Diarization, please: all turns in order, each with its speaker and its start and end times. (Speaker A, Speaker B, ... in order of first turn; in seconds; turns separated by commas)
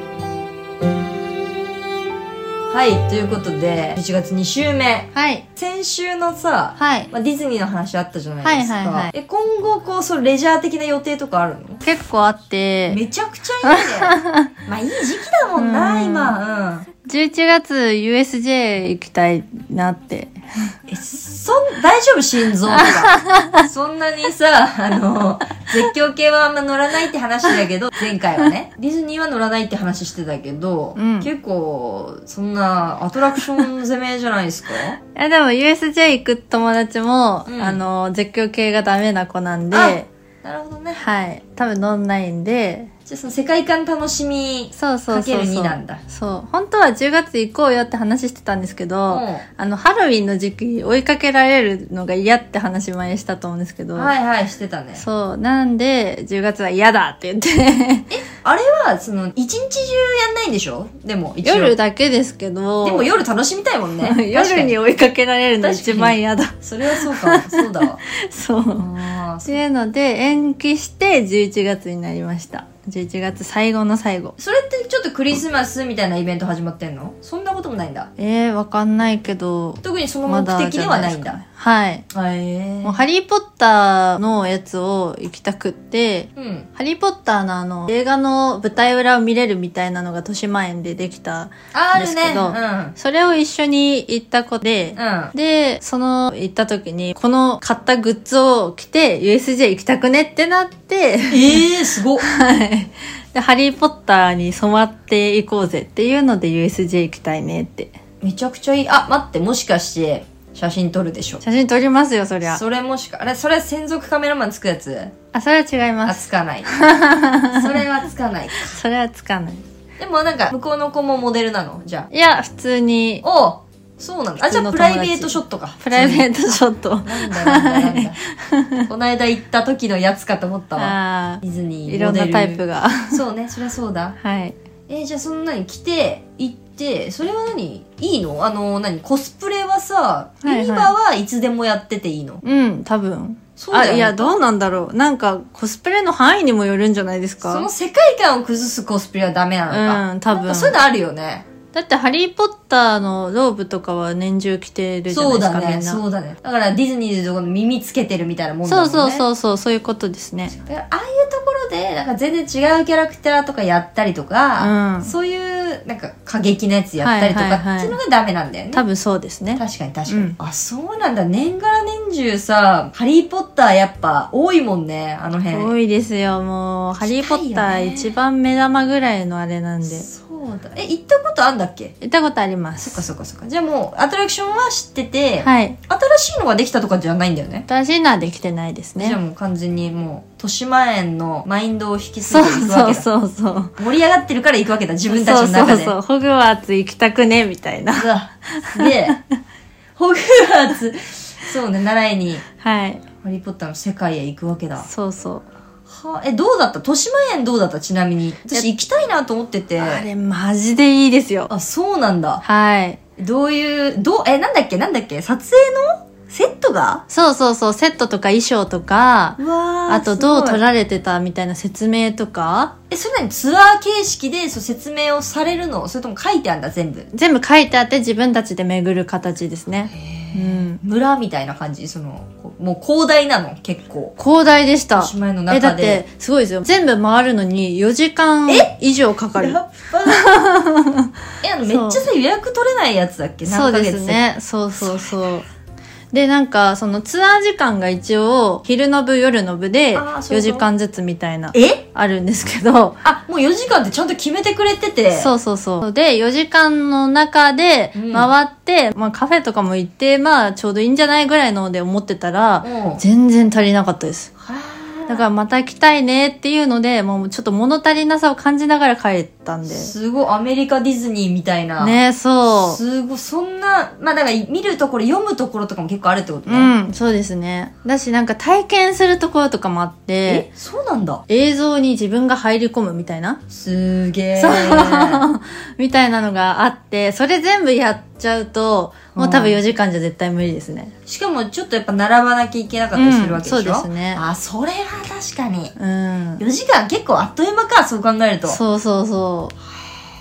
Speaker A: 2.7-11.8, Speaker B: 5.1-5.4, Speaker B: 6.8-7.1, Speaker B: 8.4-9.1, Speaker B: 11.8-13.0, Speaker A: 12.9-16.9, Speaker B: 13.6-14.5, Speaker B: 15.6-16.4, Speaker B: 17.0-20.7, Speaker A: 20.9-35.0, Speaker B: 22.7-23.7, Speaker B: 30.9-31.3, Speaker B: 35.1-40.1, Speaker A: 37.5-37.8, Speaker A: 39.7-41.0, Speaker B: 41.0-42.9, Speaker A: 43.1-46.0, Speaker B: 44.8-54.1, Speaker A: 49.1-49.4, Speaker A: 53.9-55.0, Speaker B: 55.0-58.1, Speaker A: 58.1-61.7, Speaker B: 61.4-63.1, Speaker A: 62.8-64.7, Speaker B: 64.0-74.3, Speaker A: 65.6-68.0, Speaker A: 68.8-69.6, Speaker A: 74.4-78.1, Speaker B: 78.2-82.0, Speaker A: 79.8-81.4, Speaker A: 82.1-83.0, Speaker B: 82.8-101.6, Speaker A: 86.3-86.7, Speaker A: 91.7-93.0, Speaker A: 95.0-95.3, Speaker A: 101.3-102.3, Speaker B: 102.2-107.9, Speaker A: 108.2-111.4, Speaker B: 111.4-112.6, Speaker A: 112.4-115.1, Speaker B: 115.3-117.8, Speaker A: 116.0-116.8, Speaker A: 117.5-118.8, Speaker B: 118.6-119.6, Speaker A: 120.0-122.1, Speaker B: 122.1-123.2, Speaker A: 123.2-128.2, Speaker B: 124.4-128.9, Speaker A: 128.9-134.2, Speaker B: 130.8-133.2, Speaker B: 134.2-134.5, Speaker A: 134.9-142.4, Speaker B: 140.4-140.9, Speaker B: 142.4-147.7, Speaker A: 143.6-144.4, Speaker A: 147.4-151.4, Speaker B: 149.7-150.8, Speaker B: 151.7-156.0, Speaker A: 155.1-159.2, Speaker B: 158.6-160.5, Speaker A: 160.6-168.8, Speaker B: 164.6-165.1, Speaker B: 167.0-167.9, Speaker B: 168.7-170.3, Speaker A: 169.6-175.7, Speaker B: 175.5-180.1, Speaker A: 177.0-178.2, Speaker A: 179.8-181.9, Speaker B: 182.0-183.0, Speaker A: 182.8-187.7, Speaker B: 185.4-185.8, Speaker B: 187.7-189.2, Speaker A: 189.0-193.1, Speaker B: 192.2-193.8, Speaker A: 193.8-195.9, Speaker B: 195.1-199.2, Speaker A: 197.9-199.2, Speaker A: 199.9-202.4, Speaker B: 202.6-203.0, Speaker A: 203.2-204.9, Speaker B: 204.8-205.4, Speaker A: 205.9-210.0, Speaker B: 209.8-211.5, Speaker A: 211.5-212.4, Speaker B: 212.4-213.0, Speaker A: 213.2-217.0, Speaker B: 217.1-222.7, Speaker A: 219.4-220.6, Speaker A: 222.9-227.1, Speaker B: 227.1-230.8, Speaker A: 229.9-234.1, Speaker B: 234.2-241.1, Speaker A: 235.0-236.0, Speaker A: 238.5-238.7, Speaker A: 239.3-240.2, Speaker A: 241.4-244.2, Speaker B: 241.6-242.1, Speaker B: 243.4-245.4, Speaker A: 244.8-245.2, Speaker B: 246.1-253.0, Speaker A: 249.9-250.7, Speaker A: 251.5-251.8, Speaker A: 253.0-255.3, Speaker B: 255.1-264.3, Speaker A: 257.9-258.3, Speaker A: 262.6-263.0, Speaker A: 264.4-265.3, Speaker B: 265.1-269.9, Speaker A: 269.7-276.7, Speaker B: 271.8-272.8, Speaker B: 276.5-280.4, Speaker A: 280.2-281.2, Speaker B: 281.3-283.4, Speaker A: 283.5-285.2, Speaker B: 284.4-290.9, Speaker A: 289.1-289.6, Speaker A: 291.1-295.7, Speaker B: 292.9-294.2, Speaker B: 295.8-296.4, Speaker A: 296.4-298.6, Speaker B: 298.4-299.5